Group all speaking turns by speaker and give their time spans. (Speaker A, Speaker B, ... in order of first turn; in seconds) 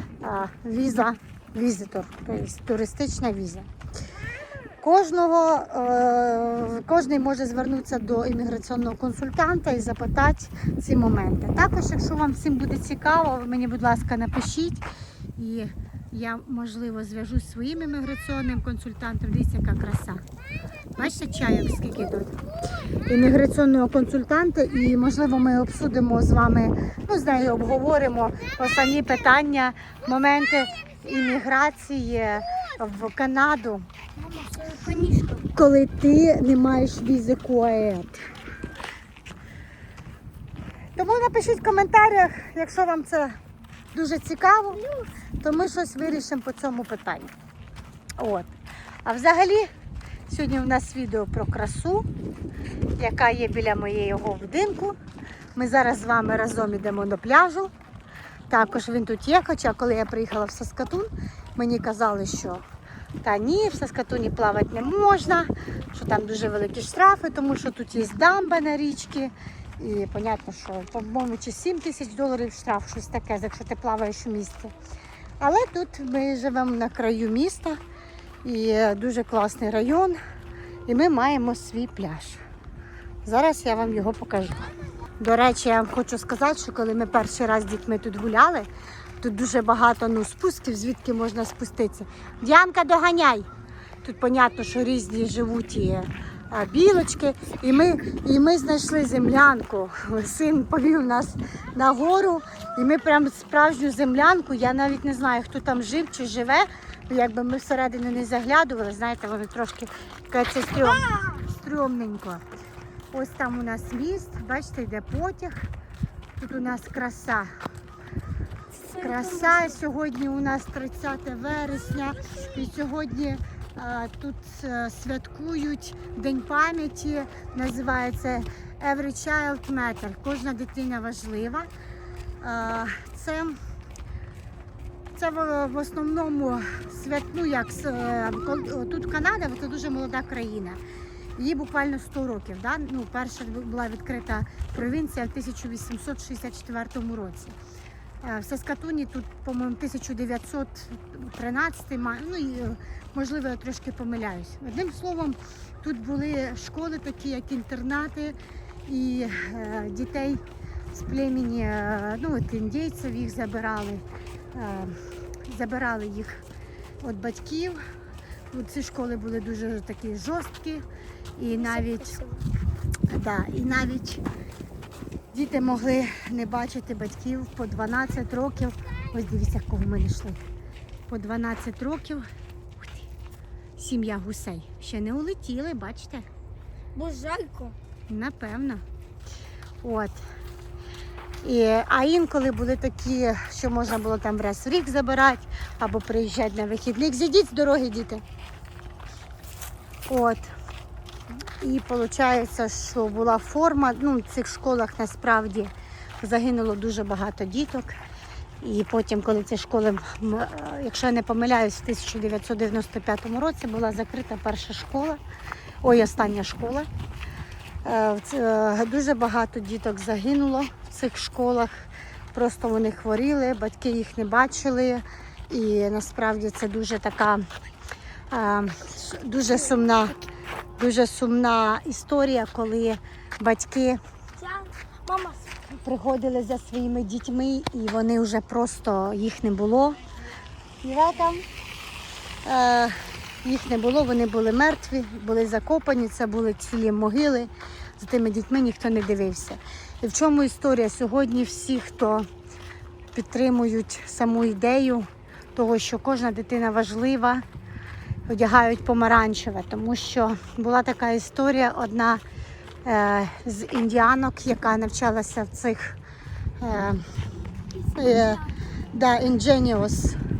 Speaker A: 0.2-3.7, 4.8-14.9, 15.4-20.2, 21.0-22.4, 23.1-33.9, 35.5-38.3, 41.0-43.4, 43.9-44.8, 45.4-47.3, 48.2-48.5, 49.0-49.7, 50.3-52.1, 53.0-55.0, 55.6-57.7, 58.5-62.6, 63.2-74.7, 75.4-77.8, 78.4-80.2, 80.9-82.4, 83.2-88.7, 89.2-93.5, 94.0-112.4, 113.1-115.7, 116.4-117.5, 118.9-131.7, 132.4-133.6, 135.2-140.8, 141.4-147.6, 148.2-160.4, 160.9-164.0, 164.5-166.4, 167.0-167.8, 168.5-170.8, 171.4-172.2, 173.1-174.2, 175.3-180.4, 181.1-182.3, 182.8-183.1, 183.8-186.3, 188.1-188.8, 189.8-190.2, 191.4-198.2, 200.1-200.5, 201.6-207.9, 208.6-215.2, 215.8-216.9, 217.8-221.7, 222.3-227.4, 228.3-230.2, 230.8-234.0, 235.7-240.0, 240.8-241.4, 242.4-252.3, 253.1-257.4, 258.3-262.2, 262.9-266.0, 266.6-267.0, 267.9-270.2
Speaker B: 34.2-35.5, 118.7-119.8, 171.5-172.5, 186.9-187.8, 234.4-235.6